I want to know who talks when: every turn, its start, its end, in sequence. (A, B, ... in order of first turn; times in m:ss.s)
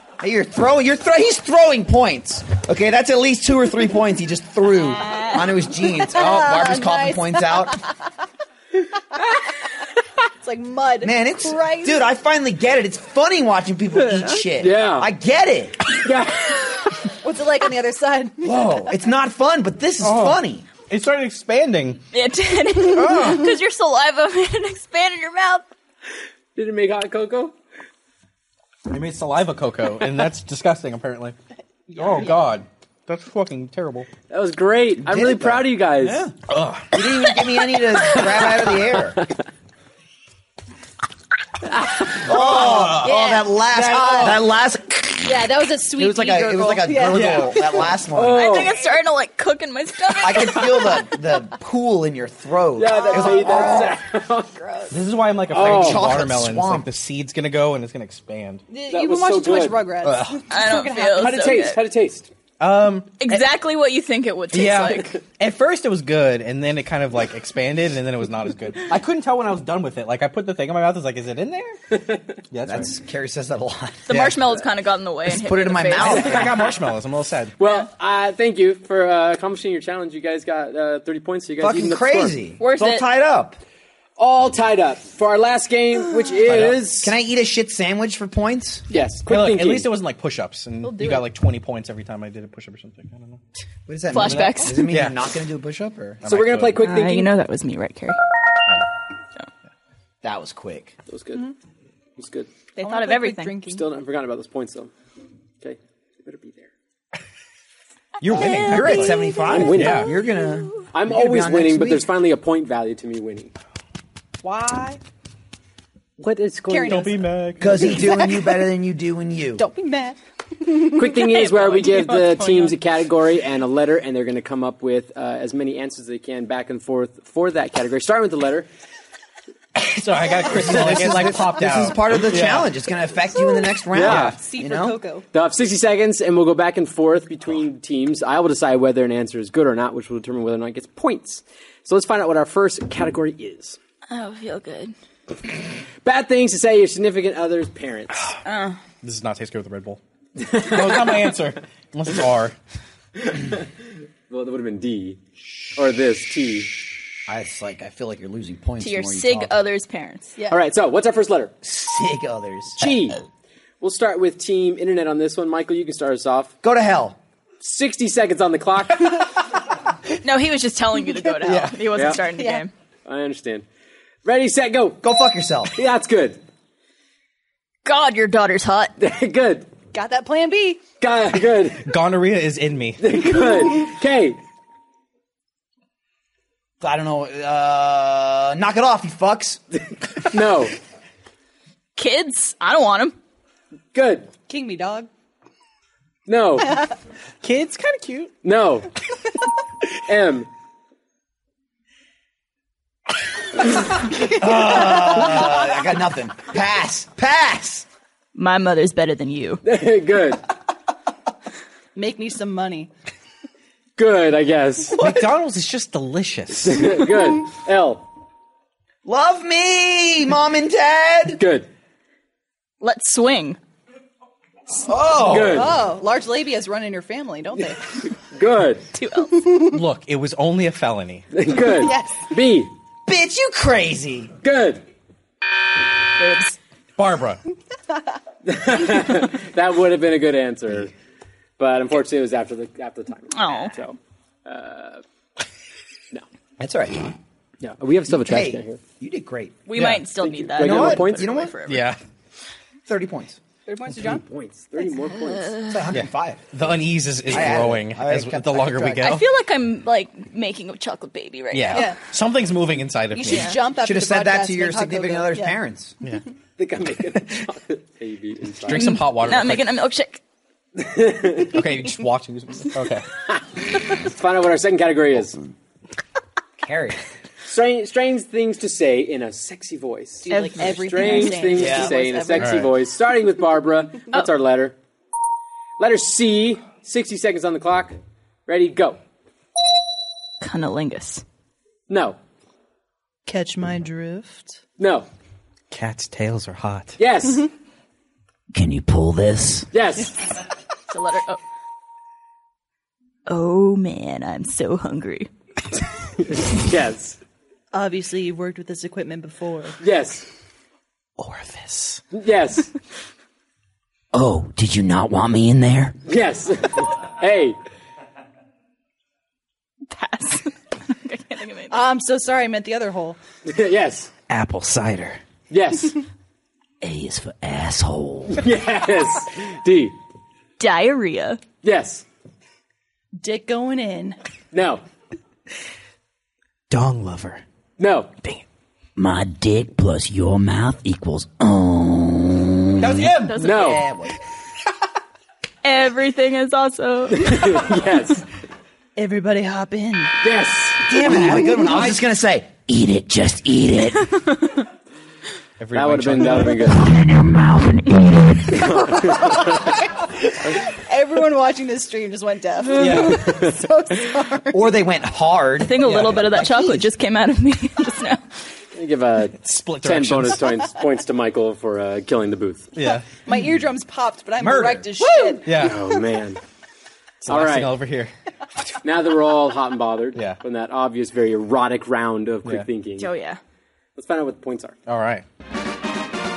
0:00.2-0:07.8 A
0:04.7-0:05.5 B
0:05.8-0:08.0 C
0:10.4-0:12.0 C
0:11.0-0:15.9 A
0:13.9-0:15.1 D
0:15.9-0:17.0 D
0:17.2-0:18.6 C
0:18.4-0:20.7 A
0:20.0-0:22.0 E
0:22.1-0:25.7 B
0:22.8-0:23.5 E
0:26.6-0:27.6 D
0:28.9-0:31.4 E
0:31.9-0:34.1 E
0:31.9-0:32.4 C
0:34.3-0:36.2 D
0:35.0-0:36.4 A
0:36.4-0:37.0 E
0:36.9-0:39.2 A
0:38.0-0:38.6 D
0:41.8-0:42.4 D
0:42.2-0:48.7 A
0:42.5-0:43.2 E
0:43.0-0:43.5 C
0:43.8-0:44.4 E
0:45.2-0:48.0 C
0:47.1-0:47.6 E
0:48.1-0:48.8 D
0:48.3-0:51.0 B
0:50.2-0:54.0 A
0:52.8-0:54.6 D
0:52.8-0:54.0 C
0:54.6-0:55.0 C
0:54.9-0:58.6 E
0:55.5-0:56.2 D
0:55.5-0:56.9 A
0:58.7-1:01.6 C
0:58.9-0:59.9 D
1:00.0-1:00.5 E
1:00.5-1:01.8 B
1:01.0-1:02.3 D
1:02.6-1:03.5 E
1:03.2-1:05.2 B
1:04.5-1:11.8 E
1:11.9-1:12.4 D
1:12.5-1:12.9 E
1:12.6-1:14.1 A
1:14.1-1:14.5 E
1:14.1-1:16.3 B
1:15.3-1:16.5 A
1:16.0-1:17.5 E
1:16.0-1:16.7 D
1:17.6-1:22.4 D
1:21.6-1:23.6 A
1:22.6-1:23.1 B
1:24.2-1:27.1 D
1:26.5-1:26.8 E
1:26.5-1:28.8 A
1:28.9-1:29.9 D
1:29.3-1:33.4 E
1:30.8-1:31.3 C
1:33.9-1:36.2 A
1:34.1-1:34.9 B
1:34.2-1:35.2 E
1:36.2-1:36.8 E
1:36.3-1:37.3 D
1:36.8-1:38.2 B
1:40.2-1:40.9 A
1:41.1-1:41.5 D
1:42.2-1:42.5 D
1:42.8-1:43.7 B
1:42.8-1:43.8 C
1:43.7-1:44.9 D
1:45.6-1:46.7 D
1:48.2-1:52.1 A
1:48.3-1:50.8 B
1:48.5-1:49.2 E
1:49.4-1:50.1 D
1:49.7-1:50.2 E
1:50.9-1:53.5 D
1:54.4-1:55.0 C
1:56.2-1:57.1 D
1:56.7-1:58.6 C
1:56.8-1:58.1 E
1:57.6-1:59.6 A
1:59.6-2:01.2 C
2:00.8-2:08.7 D
2:01.2-2:02.8 B
2:09.8-2:12.7 E
2:10.5-2:15.0 A
2:13.9-2:14.4 D
2:14.0-2:14.4 E
2:14.1-2:15.2 C
2:15.3-2:23.8 D
2:24.1-2:24.9 B
2:26.0-2:28.3 D
2:28.4-2:28.8 B
2:29.0-2:30.0 E
2:30.5-2:31.3 D
2:30.5-2:32.6 E
2:33.2-2:33.7 D
2:34.3-2:35.2 D
2:35.8-2:36.7 D
2:37.3-2:39.5 A
2:38.8-2:40.4 B
2:40.5-2:41.5 D
2:41.6-2:42.9 A
2:42.8-2:43.2 D
2:43.8-2:46.5 D
2:46.6-2:47.2 A
2:47.6-2:49.4 D
2:50.2-2:52.7 B
2:51.4-2:51.9 E
2:51.9-2:52.2 D
2:52.3-2:52.7 C
2:53.0-2:53.6 D
2:54.2-2:55.0 D
2:55.0-2:55.7 A
2:55.7-2:56.4 D
2:57.8-2:59.0 B
2:59.0-2:59.7 D
2:59.9-3:00.8 C
3:01.0-3:01.9 D
3:01.8-3:03.0 E
3:03.0-3:04.4 D
3:06.8-3:09.6 A
3:10.2-3:10.8 D
3:12.0-3:13.2 B
3:13.9-3:14.3 D
3:14.5-3:15.1 C
3:16.3-3:16.8 D
3:17.4-3:18.3 E
3:18.4-3:18.9 D
3:20.1-3:20.5 D
3:24.2-3:27.9 A
3:28.4-3:29.6 B
3:29.6-3:30.4 D
3:32.0-3:32.9 C
3:34.0-3:35.0 D
3:35.0-3:37.0 E
3:36.6-3:38.0 D
3:39.0-3:41.4 A
3:41.4-3:41.7 D
3:42.8-3:43.6 B
3:44.8-3:45.7 A
3:45.1-3:45.8 D
3:45.4-3:48.0 C
3:48.3-3:48.8 D
3:48.9-3:49.6 B
3:49.5-3:51.3 E
3:51.3-3:52.7 D
3:51.8-3:52.2 C
3:53.1-3:54.3 A
3:54.4-3:54.8 D
3:56.2-3:56.6 B
3:57.0-3:57.4 E
3:58.4-4:00.9 D
4:01.6-4:05.0 D
4:03.3-4:03.8 B
4:06.6-4:07.2 A
4:07.6-4:08.8 D
4:08.1-4:09.6 A
4:09.7-4:12.0 B
4:09.7-4:10.1 E
4:10.2-4:11.5 D
4:10.6-4:11.5 A
4:11.6-4:12.0 E
4:12.9-4:13.4 A
4:13.7-4:14.2 C
4:13.9-4:15.6 D
4:15.2-4:16.0 B
4:15.7-4:16.5 A
4:15.9-4:19.3 E
4:17.2-4:19.2 A
4:19.0-4:22.0 B
4:21.5-4:23.6 E
4:21.7-4:22.0 C
4:23.1-4:25.6 C
4:23.3-4:23.6 B
4:23.8-4:26.0 A
4:26.6-4:29.0 D
4:28.6-4:29.7 E
4:28.7-4:30.2 B
4:30.8-4:31.6 D
4:31.4-4:33.1 E
4:33.3-4:35.4 D
4:36.6-4:37.0 A
4:37.5-4:44.8 D
4:40.2-4:42.6 C
4:40.3-4:41.6 B
4:41.5-4:42.0 A
4:42.4-4:42.7 E
4:45.8-4:49.0 D
4:50.4-4:51.2 B
4:51.9-4:52.2 D
4:53.3-4:54.6 C
4:54.8-4:55.1 D
4:55.7-4:57.0 E
4:57.0-4:57.5 D
4:58.5-4:59.7 A
4:59.7-5:00.2 D
5:00.9-5:01.4 B
5:03.3-5:05.3 B
5:06.2-5:07.2 D
5:07.7-5:09.8 C
5:09.8-5:10.3 D
5:11.2-5:12.0 E
5:12.1-5:12.7 D
5:14.1-5:16.0 A
5:16.1-5:17.6 D
5:19.9-5:21.8 B
5:21.7-5:23.2 C
5:23.4-5:24.1 D
5:24.3-5:25.2 A
5:25.5-5:26.0 D
5:26.8-5:28.4 A
5:28.3-5:30.0 D
5:30.6-5:31.4 B
5:31.6-5:32.0 D
5:33.2-5:34.2 C
5:34.5-5:34.8 D
5:36.7-5:37.4 E
5:37.8-5:38.1 D
5:39.0-5:44.2 A
5:42.8-5:43.5 E
5:43.2-5:43.8 B
5:43.4-5:43.9 D
5:45.6-5:47.6 B
5:47.1-5:48.3 D
5:49.0-5:50.2 C
5:50.2-5:51.1 D
5:50.8-5:54.3 A
5:51.0-5:51.7 C
5:55.6-5:56.6 E
5:55.7-5:56.9 D
5:56.6-5:58.9 A
5:58.5-5:59.6 D
5:59.0-5:59.5 C
6:00.5-6:04.6 C
6:02.6-6:03.7 D
6:02.8-6:03.2 E
6:04.5-6:06.9 A
6:05.6-6:08.2 B
6:08.8-6:12.7 D
6:09.4-6:10.5 E
6:12.7-6:13.1 E
6:13.2-6:15.7 C
6:14.4-6:14.9 A
6:15.4-6:15.8 E
6:15.5-6:16.4 D
6:17.2-6:18.1 E
6:17.3-6:17.8 D
6:18.8-6:23.1 D
6:20.2-6:20.4 E
6:23.0-6:23.4 B
6:24.0-6:24.8 D
6:24.9-6:25.2 E